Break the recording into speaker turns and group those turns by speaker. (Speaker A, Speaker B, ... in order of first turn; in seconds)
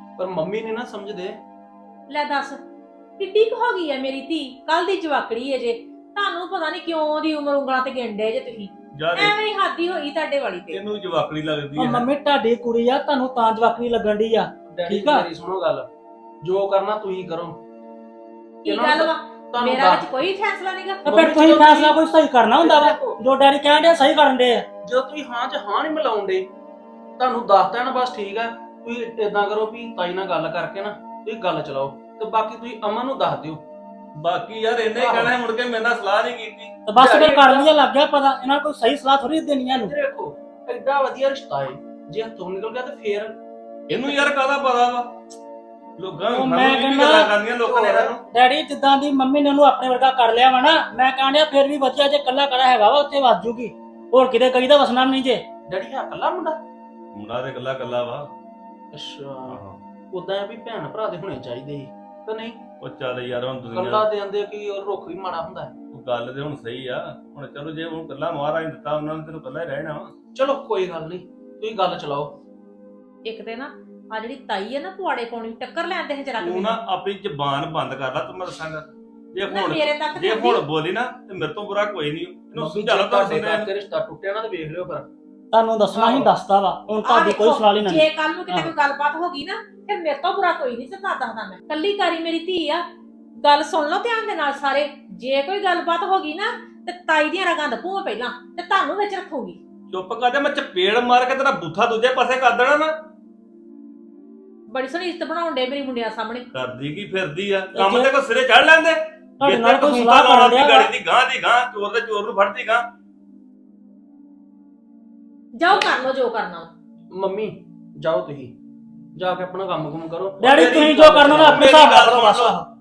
Speaker A: 0.2-1.4, 14.7-15.9, 16.4-17.6, 18.7-20.1, 21.1-22.0, 22.5-23.2, 24.8-26.5, 27.2-33.6, 34.9-35.4, 37.0-37.8, 39.7-43.4, 43.9-44.2, 47.5-48.2, 55.7-56.6, 58.9-62.6, 63.7-65.8, 70.3-72.3, 82.5-85.1, 85.9-86.4, 117.1-118.5, 119.2-122.2
Speaker B: 2.1-2.6, 3.2-10.8, 18.6-21.1, 73.2-76.8, 79.5-80.6, 87.0-92.8, 93.4-99.6, 104.7-106.5, 115.6-116.7
Speaker C: 8.9-9.4, 10.7-12.1, 34.2-36.8, 43.9-45.1, 46.0-48.2, 57.1-58.3, 59.5-59.8, 62.8-64.1, 65.9-70.1, 76.4-83.7, 99.9-102.9, 106.5-112.9, 120.5-122.6
Speaker D: 11.8-15.3, 21.1-24.7, 36.9-39.9, 46.3-47.3, 48.3-55.4, 85.5-88.7, 107.7-108.1, 109.4-110.9, 120.4-122.6